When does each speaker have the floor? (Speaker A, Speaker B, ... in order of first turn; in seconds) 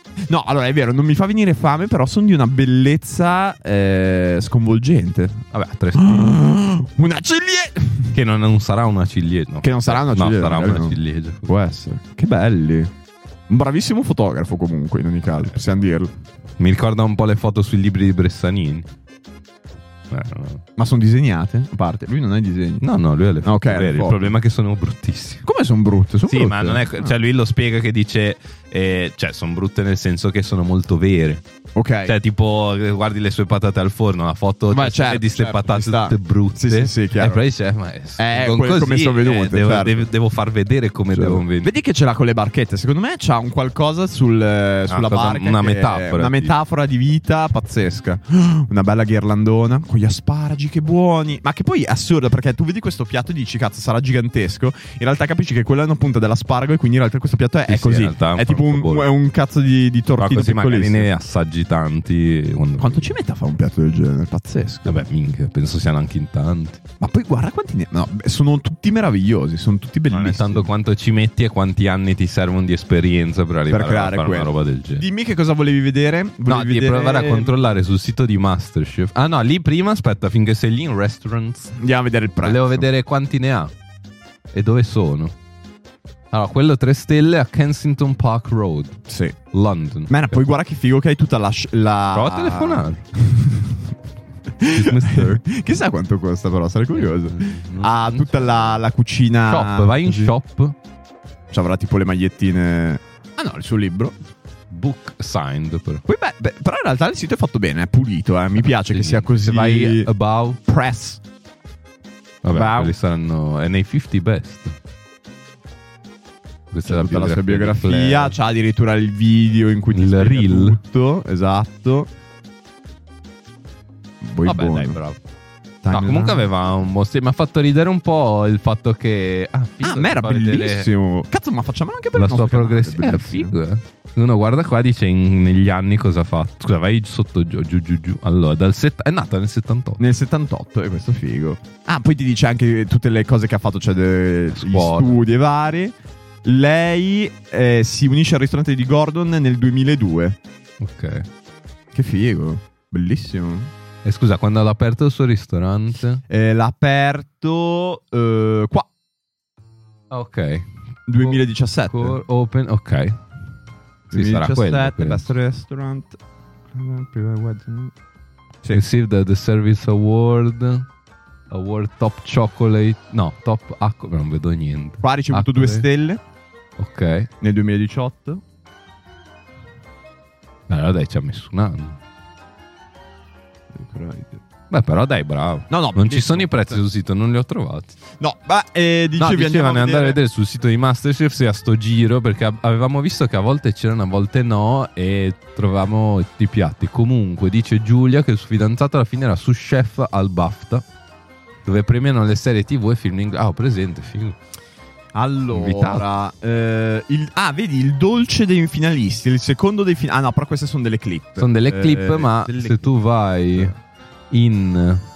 Speaker A: 0.3-5.4, 5.9-8.2, 9.6-12.9, 13.5-16.1, 20.8-22.8, 23.4-24.3, 25.4-27.1, 31.8-32.1, 34.7-37.4, 38.2-40.1, 41.1-61.1, 62.8-65.0, 67.0-70.7, 73.7-77.5, 81.8-82.9, 89.1-89.4, 90.1-93.8, 94.6-100.3, 101.5-104.2, 106.0-110.1, 110.7-111.2, 112.5-113.0, 116.8-122.1, 124.2-125.0, 125.8-126.5, 129.8-133.6, 140.0-150.4, 151.9-153.7, 156.3-158.9, 161.1-162.2, 164.1-166.2, 166.7-167.9, 175.0-176.2, 177.4-178.4, 183.7-184.4, 185.7-186.8, 188.2-190.2, 205.2-213.0
Speaker B: 5.5-6.4, 8.1-11.5, 16.6-18.9, 20.1-20.6, 22.8-25.4, 26.3-31.4, 32.0-41.7, 44.9-46.5, 57.7-59.1, 60.2-63.1, 64.8-66.8, 70.1-75.1, 76.5-81.8, 82.4-83.7, 84.5-85.3, 86.3-89.0, 89.5-90.5, 92.1-93.1, 94.7-95.4, 96.9-98.8, 99.5-100.8, 104.7-106.0, 108.6-110.6, 112.4-114.8, 116.7-118.4, 119.9-120.8, 124.4-125.2, 125.9-130.9, 132.2-140.0, 144.5-145.2, 150.8-151.3, 154.0-156.2, 160.1-163.2, 164.1-165.3, 168.7-170.9, 171.5-175.9, 176.8-177.3, 180.7-182.0, 184.7-188.0, 189.2-200.8, 201.7-204.4, 205.5-206.1, 211.4-213.7, 214.3-215.1